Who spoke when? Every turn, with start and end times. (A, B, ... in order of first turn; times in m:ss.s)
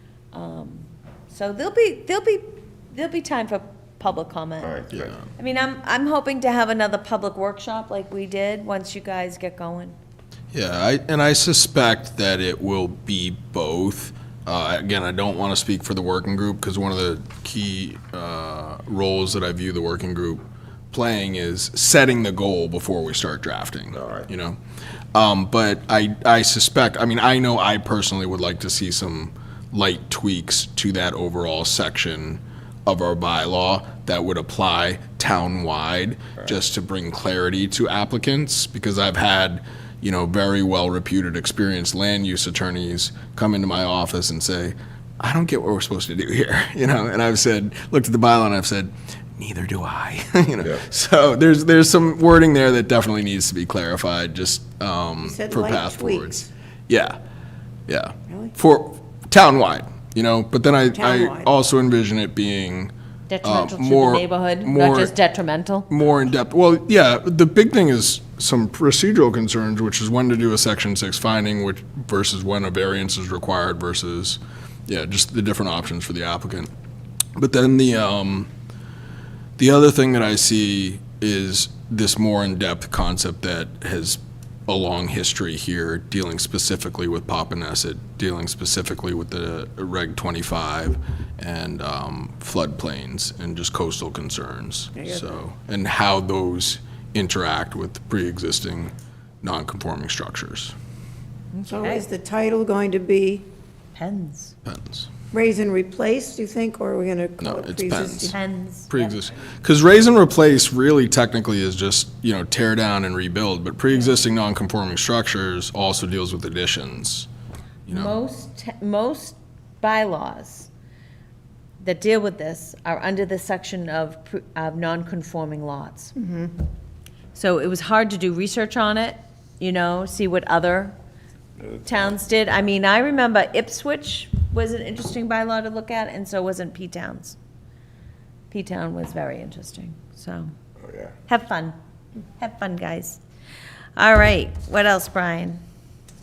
0:00.3-0:04.7 A
0:04.6-0:05.2 B
0:04.9-0:05.2 C
0:05.4-0:10.0 A
0:10.5-0:24.6 C
0:23.9-0:24.3 B
0:25.1-0:57.2 C
0:55.2-0:56.5 D
0:57.9-1:02.9 C
1:00.9-1:01.5 D
1:03.3-1:05.9 A
1:03.4-1:05.1 C
1:05.9-1:16.7 C
1:17.4-1:18.5 C
1:19.6-1:40.8 C
1:41.5-1:42.1 A
1:41.7-1:43.5 D
1:44.0-1:44.5 A
1:44.6-1:45.1 C
1:45.3-1:48.4 D
1:47.4-1:48.4 C
1:48.3-1:49.1 A
1:48.9-1:57.3 C
1:57.9-1:58.2 C
1:57.9-2:00.7 A
2:01.8-2:06.2 A
2:06.2-2:06.5 D
2:07.3-2:10.9 A
2:11.6-2:12.2 B
2:11.8-2:17.4 A
2:18.5-2:20.5 A
2:20.8-2:21.1 B
2:21.3-2:21.8 A
2:22.4-2:23.2 A
2:24.0-2:25.6 A